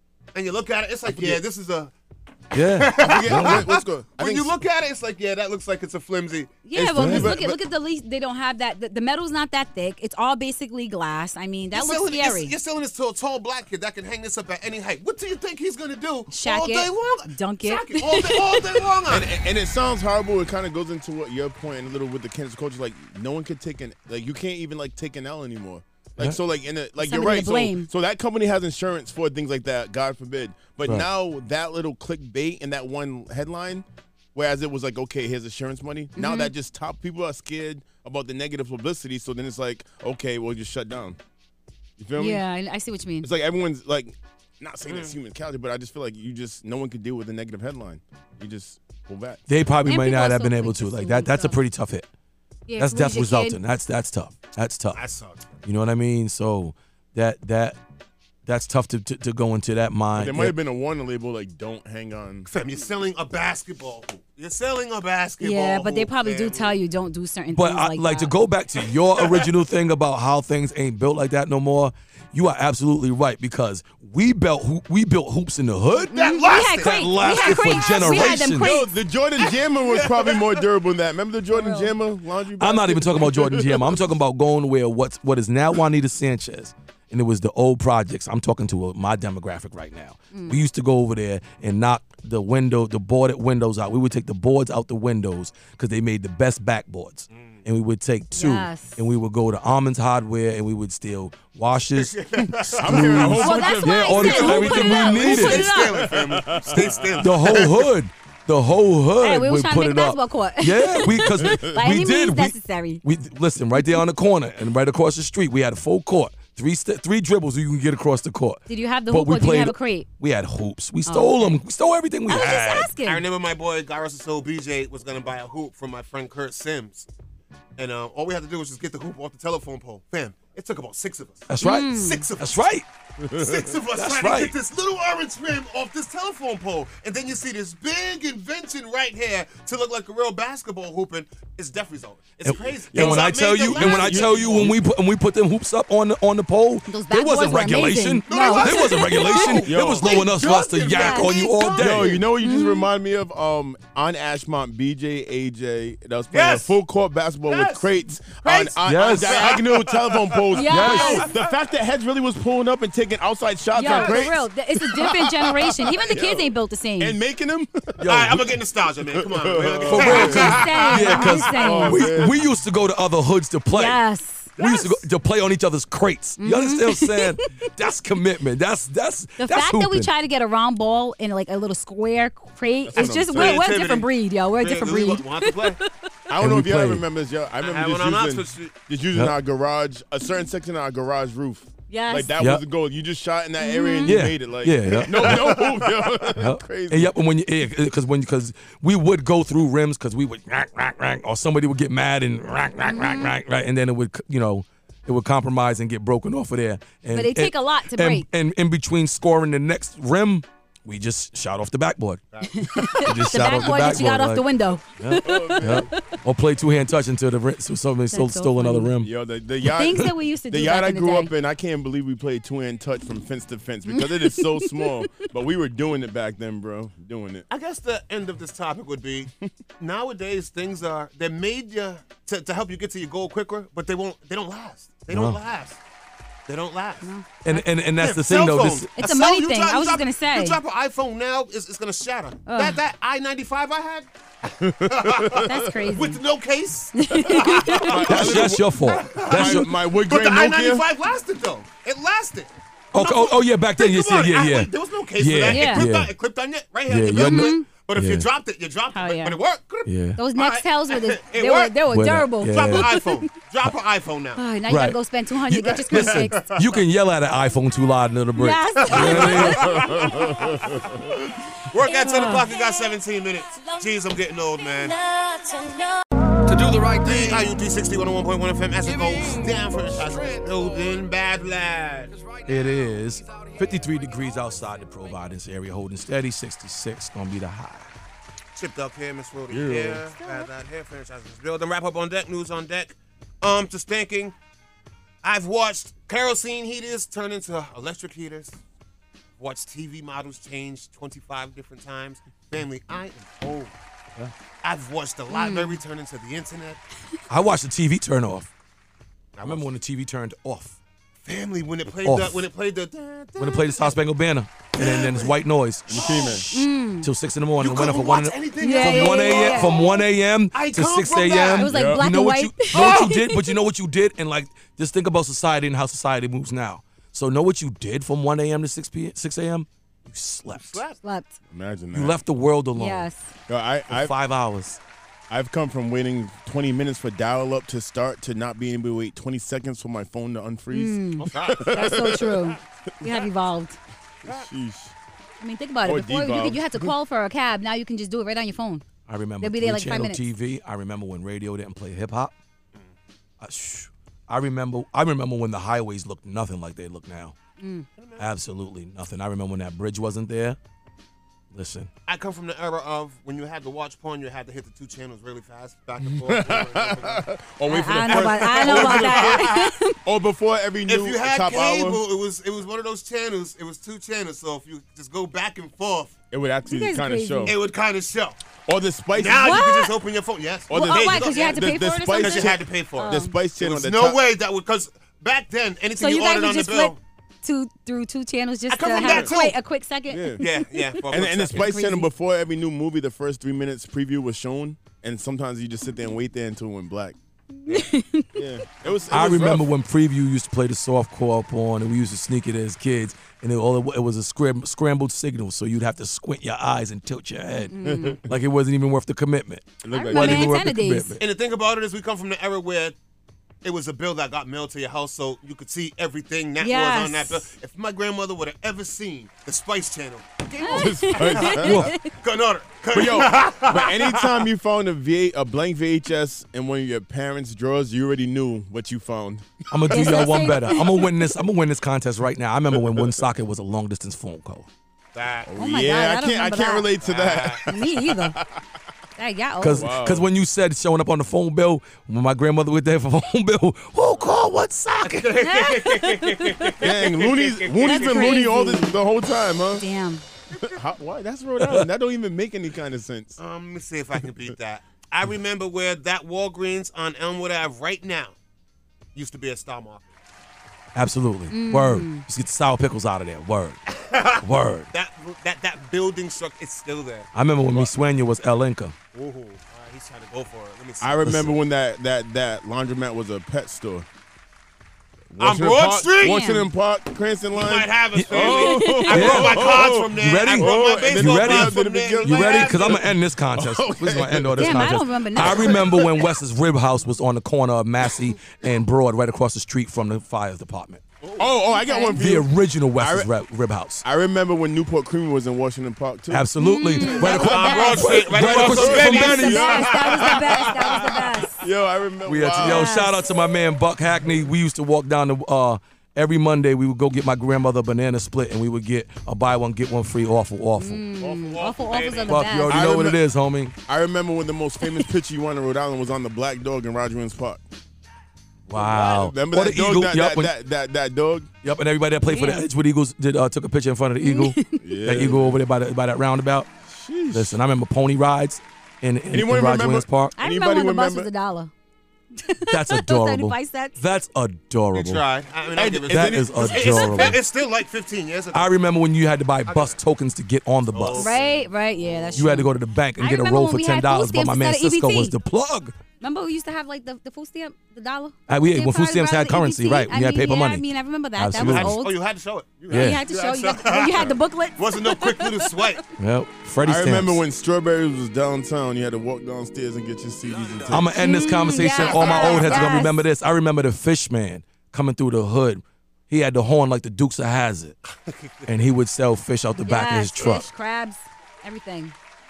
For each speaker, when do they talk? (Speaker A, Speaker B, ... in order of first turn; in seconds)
Speaker A: 0.3-1.9, 2.8-6.7, 11.7-19.3, 44.9-45.1, 54.9-55.5, 62.5-66.8, 69.2-69.5, 76.0-78.3, 79.9-80.6, 97.3-97.6, 102.0-103.4, 104.1-107.8, 123.0-127.1, 127.8-132.6, 133.3-144.7, 148.3-152.2, 156.3-156.7, 157.5-161.3, 163.8-164.2, 168.1-171.7, 174.6-175.0, 183.1-185.8, 187.6-188.8, 195.1-195.9, 227.5-235.8, 236.5-237.1, 238.0-244.1, 244.8-261.8, 262.4-264.5, 265.6-266.8, 268.8-270.9, 271.7-275.0, 276.7-282.1, 288.5-294.3, 295.2-298.6, 299.4-303.7, 304.6-306.8, 309.4-309.7, 311.2-314.0, 314.8-316.4, 317.6-321.7, 322.7-323.1, 330.5-331.0, 341.2-342.3, 358.0-358.3, 362.1-367.2, 368.1-369.7, 370.9-376.1, 377.4-378.4, 379.1-387.0, 388.7-389.6, 390.4-391.7, 411.2-412.9, 413.6-424.4, 435.1-435.5, 437.0-437.6, 444.1-444.4, 445.0-448.4, 453.4-458.4, 459.1-460.1, 463.9-467.9, 469.1-471.5, 475.4-476.5, 477.5-483.0, 491.2-491.5, 497.0-501.0, 511.1-512.6, 534.9-538.8, 539.7-540.0, 540.9-542.5, 551.5-556.0, 560.5-561.0, 561.6-563.0, 568.2-568.7, 570.4-570.6
Speaker B: 1.1-1.4, 3.0-4.5, 6.8-7.6, 19.1-41.2, 42.0-42.5, 43.2-49.4, 60.1-62.5, 78.4-84.0, 102.6-104.9, 105.5-107.3, 111.4-111.7, 133.2-133.7, 142.9-143.3, 144.0-144.7, 149.6-150.2, 151.8-168.0, 169.1-170.6, 171.5-172.4, 182.8-183.7, 186.3-197.2, 215.1-215.9, 219.0-227.4, 244.6-245.4, 247.8-250.9, 269.7-271.0, 289.5-290.1, 315.9-316.5, 321.6-322.0, 331.5-332.2, 333.5-334.1, 335.3-342.4, 344.2-344.9, 345.8-346.8, 366.0-369.5, 370.0-372.0, 376.3-377.6, 378.7-379.5, 380.7-384.2, 389.0-389.2, 390.1-390.4, 391.1-397.1, 398.4-399.7, 407.8-408.4, 409.8-410.5, 420.7-421.8, 422.9-430.7, 432.7-433.2, 435.4-438.6, 439.8-440.3, 446.8-449.9, 450.6-453.4, 471.0-474.1, 475.3-486.2, 491.4-493.3, 494.0-496.5, 497.4-500.1, 501.6-503.0, 512.7-513.2, 513.9-517.6, 518.8-521.5, 524.8-525.6, 526.8-527.6, 529.3-531.3, 535.7-536.7, 556.8-561.1
Speaker C: 2.5-3.7, 6.9-7.4, 49.5-52.1, 52.8-55.0, 55.6-57.8, 58.5-60.5, 67.5-76.2, 76.7-78.7, 82.6-102.2, 102.9-105.7, 107.2-122.9, 131.5-132.8, 134.0-134.5, 142.5-152.2, 158.8-159.4, 160.7-161.2, 168.0-168.4, 169.9-174.0, 174.6-180.1, 186.4-187.0, 189.1-189.4, 192.3-192.6, 194.0-195.6, 196.3-212.2, 213.0-219.1, 235.1-235.4, 237.4-238.9, 248.1-249.7, 252.9-256.1, 256.9-258.3, 259.9-260.2, 261.9-262.9, 264.7-269.6, 282.4-287.9, 307.3-308.5, 309.4-310.8, 312.0-312.4, 313.4-316.0, 317.0-330.8, 331.9-333.1, 333.9-334.8, 349.1-352.3, 353.4-357.4, 358.2-360.6, 361.5-361.9, 399.1-407.7, 408.3-411.2, 429.7-434.7, 439.6-445.2, 451.6-451.9, 460.9-463.8, 464.4-464.9, 467.3-468.9, 478.1-478.5, 479.1-491.0, 492.2-494.0, 496.3-499.9, 502.2-511.0, 512.3-513.7, 518.7-520.5, 521.6-526.7, 527.3-530.4, 532.7-535.2, 536.1-537.4, 538.5-541.3, 542.4-546.0, 548.5-552.0, 552.9-553.2, 556.2-557.4, 560.9-567.9, 568.6-570.6
Speaker D: 6.6-12.5, 16.3-18.7, 27.0-27.9, 36.1-36.5, 42.2-43.3, 49.8-51.6, 52.7-53.6, 65.4-68.3, 76.0-78.9, 81.5-81.9, 90.3-90.6, 98.3-99.0, 103.0-106.0, 109.2-113.0, 113.8-114.0, 118.7-120.1, 121.0-121.6, 122.3-123.2, 131.6-132.2, 143.8-144.4, 146.8-149.7, 150.5-151.6, 152.3-152.9, 160.5-161.3, 163.7-167.2, 170.0-172.3, 173.7-174.6, 176.4-177.5, 179.4-185.8, 191.9-192.3, 193.6-194.2, 202.8-203.3, 207.1-208.2, 212.5-216.1, 218.1-218.9, 219.6-221.3, 223.8-225.3, 237.0-237.7, 238.9-240.6, 242.4-242.8, 245.4-246.2, 246.9-247.8, 255.4-255.9, 257.1-257.7, 258.9-259.4, 260.1-263.2, 264.4-266.5, 268.3-269.7, 271.8-272.5, 290.2-290.4, 305.3-305.8, 316.5-317.1, 318.6-320.0, 321.6-323.5, 331.0-331.4, 332.7-333.3, 340.7-343.8, 345.4-348.9, 349.4-350.2, 357.6-357.9, 367.6-370.0, 376.6-377.5, 379.3-379.9, 380.7-383.3, 386.0-390.6, 391.5-392.1, 397.6-398.6, 407.7-408.2, 409.9-411.2, 416.6-417.5, 420.6-422.1, 429.9-431.3, 435.6-436.9, 437.6-438.4, 439.2-439.9, 445.3-446.8, 447.8-449.0, 449.7-450.2, 461.5-462.2, 476.2-476.7, 478.5-479.3, 484.6-485.9, 491.7-492.2, 496.6-498.2, 499.0-501.6, 502.6-503.2, 510.8-513.0, 514.8-515.1, 522.2-522.6, 524.2-524.8, 530.4-531.7, 532.4-534.1, 536.8-537.3, 541.2-545.3, 546.2-552.1, 552.9-555.9, 561.1-563.2, 569.8-572.1